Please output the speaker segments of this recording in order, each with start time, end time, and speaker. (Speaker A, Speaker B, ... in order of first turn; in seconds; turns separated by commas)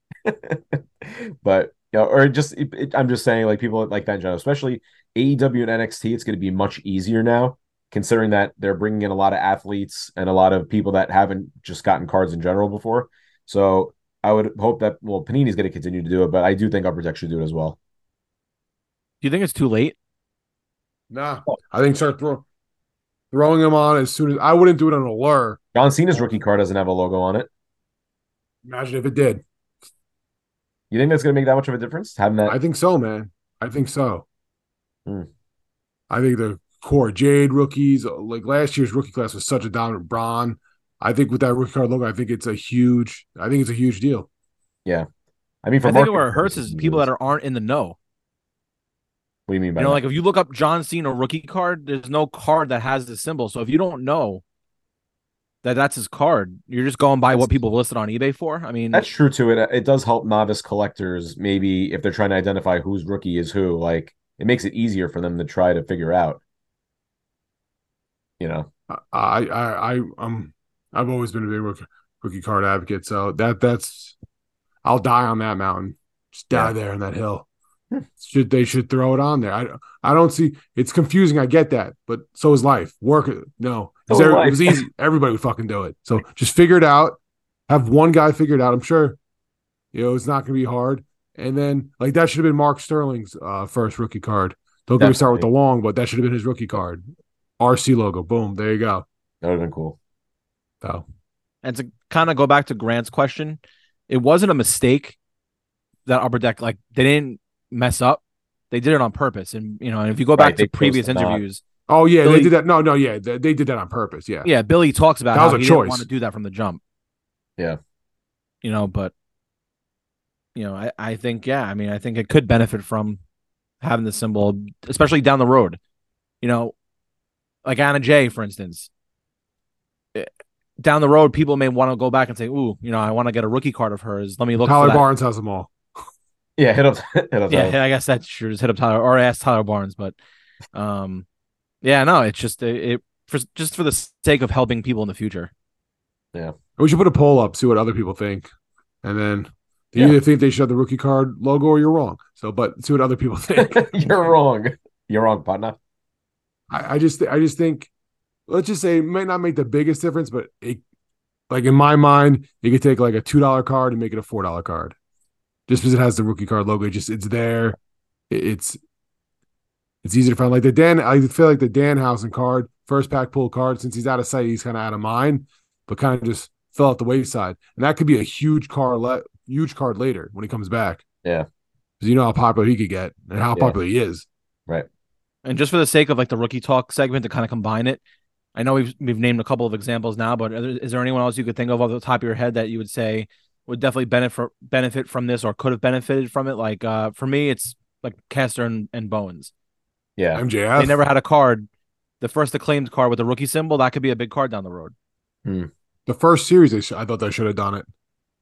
Speaker A: 0.3-17.8, Speaker B: 19.2-20.0, Speaker C: 21.1-22.4, Speaker C: 23.3-25.6, Speaker A: 25.7-27.5, Speaker C: 28.6-29.4, Speaker A: 30.9-32.6, Speaker C: 32.5-34.2, Speaker C: 36.1-44.3, Speaker A: 45.6-47.1, Speaker B: 45.8-48.0, Speaker A: 49.5-50.0, Speaker B: 49.8-54.4, Speaker B: 55.6-59.1, Speaker A: 58.9-66.4, Speaker A: 68.4-68.7, Speaker C: 68.9-74.2, Speaker C: 74.8-77.5, Speaker C: 78.2-87.2, Speaker A: 84.1-84.8, Speaker C: 87.7-89.2, Speaker C: 89.9-97.0, Speaker A: 95.0-95.5, Speaker C: 97.6-99.0, Speaker A: 99.4-100.0, Speaker B: 101.6-105.2, Speaker B: 106.1-111.6, Speaker A: 110.4-111.4, Speaker C: 111.9-114.5, Speaker B: 112.2-112.5, Speaker B: 114.4-116.8, Speaker C: 115.3-116.1, Speaker B: 118.6-119.1, Speaker B: 120.5-123.2, Speaker B: 123.8-125.8, Speaker B: 126.4-126.7, Speaker B: 127.6-128.9, Speaker B: 130.2-135.1, Speaker C: 134.6-135.7, Speaker A: 136.6-137.8, Speaker B: 137.5-140.2, Speaker B: 140.7-141.3, Speaker B: 141.8-145.5, Speaker C: 146.8-148.5, Speaker C: 149.0-154.1, Speaker A: 153.6-155.8, Speaker C: 156.7-157.9, Speaker C: 158.5-160.8, Speaker C: 161.5-165.0, Speaker C: 165.7-167.8, Speaker C: 168.3-168.8, Speaker C: 170.0-181.0, Speaker C: 182.0-184.3, Speaker B: 185.4-188.0, Speaker B: 188.6-199.5, Speaker A: 200.2-200.4, Speaker C: 200.3-201.0, Speaker B: 200.8-201.7, Speaker B: 202.2-204.9, Speaker A: 205.4-205.7, Speaker C: 206.1-207.9